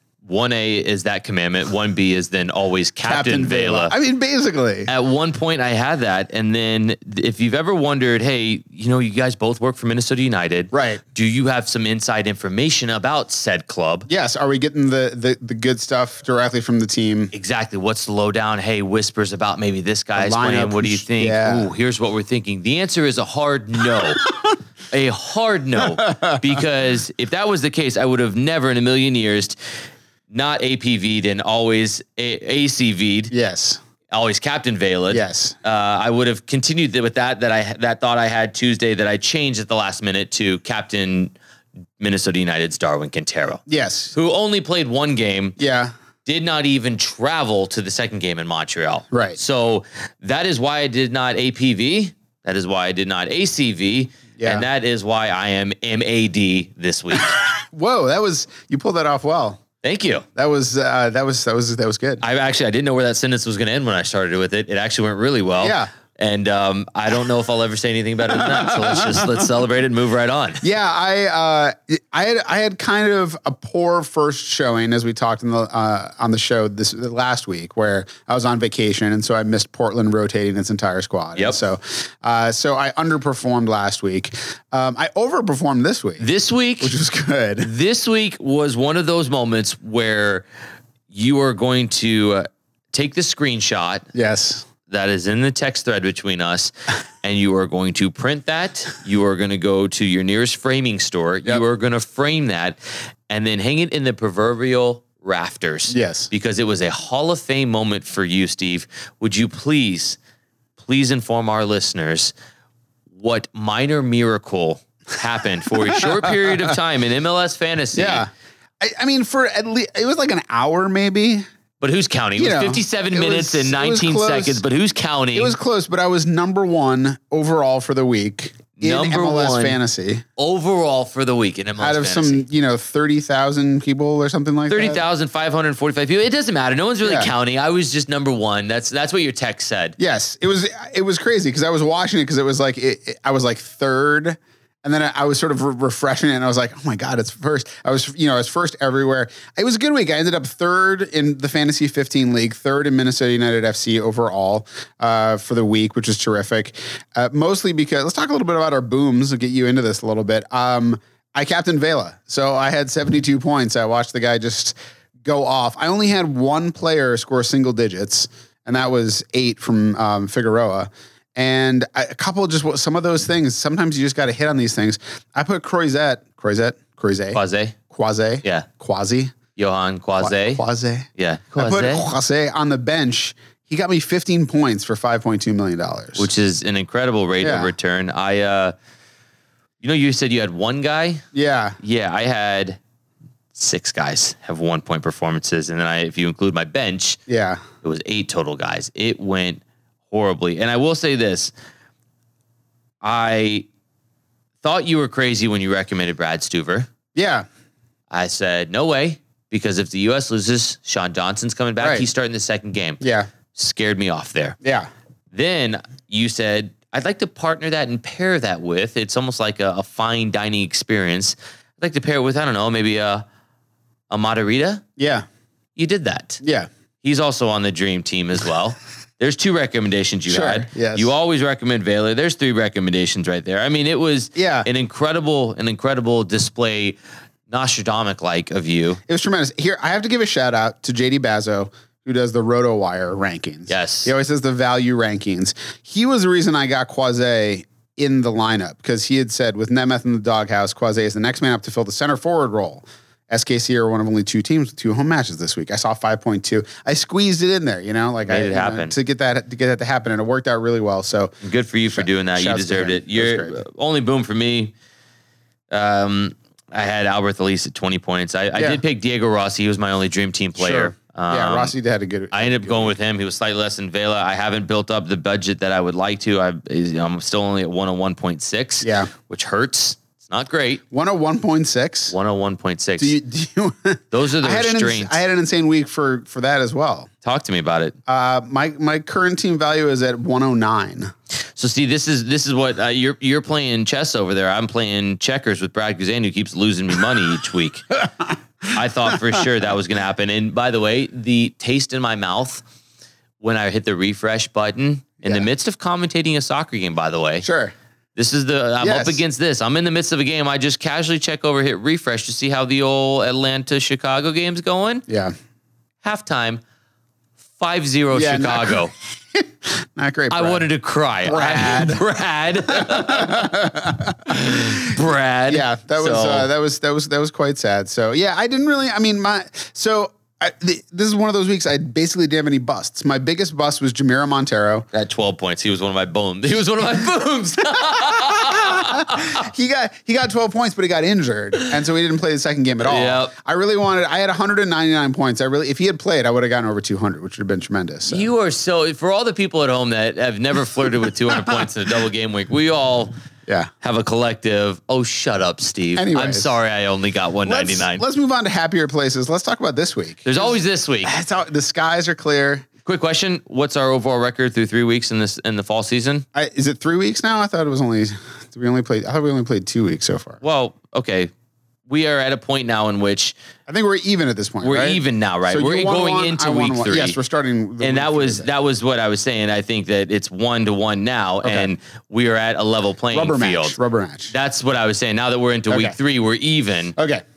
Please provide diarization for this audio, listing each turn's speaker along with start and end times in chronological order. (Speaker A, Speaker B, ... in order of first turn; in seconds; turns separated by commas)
Speaker A: 0.2-3.9, Speaker B: 3.0-4.9, Speaker A: 4.9-14.1, Speaker B: 10.7-11.0, Speaker B: 14.1-17.3, Speaker A: 17.3-24.2, Speaker B: 20.1-21.7, Speaker A: 24.9-29.6, Speaker B: 25.8-26.5, Speaker A: 30.3-33.3, Speaker B: 33.3-33.8, Speaker A: 34.1-41.3, Speaker B: 35.1-35.6, Speaker A: 42.0-43.6, Speaker B: 43.7-44.1, Speaker A: 44.1-45.5, Speaker B: 45.6-45.9, Speaker A: 46.2-57.4, Speaker B: 49.1-49.4, Speaker B: 54.4-54.6, Speaker B: 57.3-59.6, Speaker A: 59.8-60.2, Speaker B: 60.3-62.2, Speaker A: 62.2-70.6, Speaker B: 65.6-65.9, Speaker B: 70.6-86.2, Speaker A: 86.2-87.0, Speaker B: 86.8-87.7, Speaker A: 87.6-90.4, Speaker A: 91.1-94.0, Speaker B: 94.1-94.7, Speaker A: 94.9-96.7, Speaker A: 97.2-102.8, Speaker A: 103.3-110.2, Speaker B: 105.9-106.3, Speaker A: 110.8-112.3, Speaker A: 113.1-118.2, Speaker B: 116.4-116.6, Speaker B: 117.9-118.3, Speaker B: 118.8-121.4, Speaker A: 121.8-125.5, Speaker B: 122.4-124.6, Speaker B: 125.3-130.2, Speaker A: 128.8-129.8, Speaker A: 130.4-132.4, Speaker B: 131.8-135.0, Speaker A: 134.7-139.9, Speaker B: 137.0-137.3, Speaker B: 140.0-179.3, Speaker A: 177.3-177.8, Speaker A: 179.6-180.6, Speaker B: 180.2-186.3, Speaker A: 181.2-182.0, Speaker A: 186.2-188.7, Speaker B: 187.4-187.7, Speaker A: 189.8-191.2, Speaker B: 191.3-191.8, Speaker A: 191.8-192.8, Speaker A: 193.5-197.2, Speaker B: 197.3-197.6, Speaker A: 197.8-201.5, Speaker A: 203.0-203.7, Speaker A: 204.6-206.9, Speaker B: 207.1-207.4, Speaker A: 208.1-213.0, Speaker B: 211.8-212.1, Speaker B: 213.0-213.3, Speaker A: 213.5-214.6, Speaker B: 214.6-214.9, Speaker A: 215.3-223.2, Speaker A: 224.1-224.8, Speaker B: 225.0-225.2, Speaker A: 225.8-226.4, Speaker B: 226.4-226.7, Speaker A: 227.0-237.0, Speaker B: 230.3-231.1, Speaker B: 234.3-234.7, Speaker A: 237.5-239.0, Speaker B: 239.1-261.3, Speaker A: 243.7-244.1, Speaker A: 258.3-258.9, Speaker A: 261.4-264.7, Speaker B: 261.9-263.6, Speaker A: 265.7-271.7, Speaker B: 268.5-268.8, Speaker B: 270.6-273.0, Speaker A: 272.3-280.8, Speaker B: 278.8-279.1, Speaker B: 280.9-282.1, Speaker A: 282.1-283.1, Speaker B: 283.0-287.1, Speaker A: 284.1-285.1, Speaker A: 287.2-287.9, Speaker B: 288.1-291.1, Speaker A: 291.6-297.9, Speaker A: 298.7-302.6, Speaker A: 303.4-307.4, Speaker B: 307.4-307.7, Speaker A: 308.1-315.0, Speaker B: 308.8-309.2, Speaker B: 315.1-315.3, Speaker A: 316.0-316.6, Speaker A: 317.6-318.9, Speaker B: 318.1-318.8, Speaker B: 319.3-320.7, Speaker A: 320.3-323.6, Speaker B: 321.2-322.0, Speaker B: 322.7-324.2, Speaker A: 324.2-326.5, Speaker B: 325.5-334.9, Speaker A: 334.9-339.4, Speaker B: 337.9-348.3, Speaker A: 342.8-343.3, Speaker A: 348.1-353.1, Speaker A: 353.8-358.0, Speaker B: 355.9-356.5, Speaker B: 357.4-362.6, Speaker A: 360.2-361.1, Speaker A: 362.8-366.2, Speaker B: 366.3-370.4, Speaker A: 370.4-371.3, Speaker A: 371.9-373.4, Speaker B: 373.7-378.5, Speaker A: 374.6-377.2, Speaker A: 377.8-383.8, Speaker B: 381.4-381.7, Speaker B: 383.1-384.3, Speaker A: 384.3-386.9, Speaker B: 385.7-385.9, Speaker B: 387.0-387.2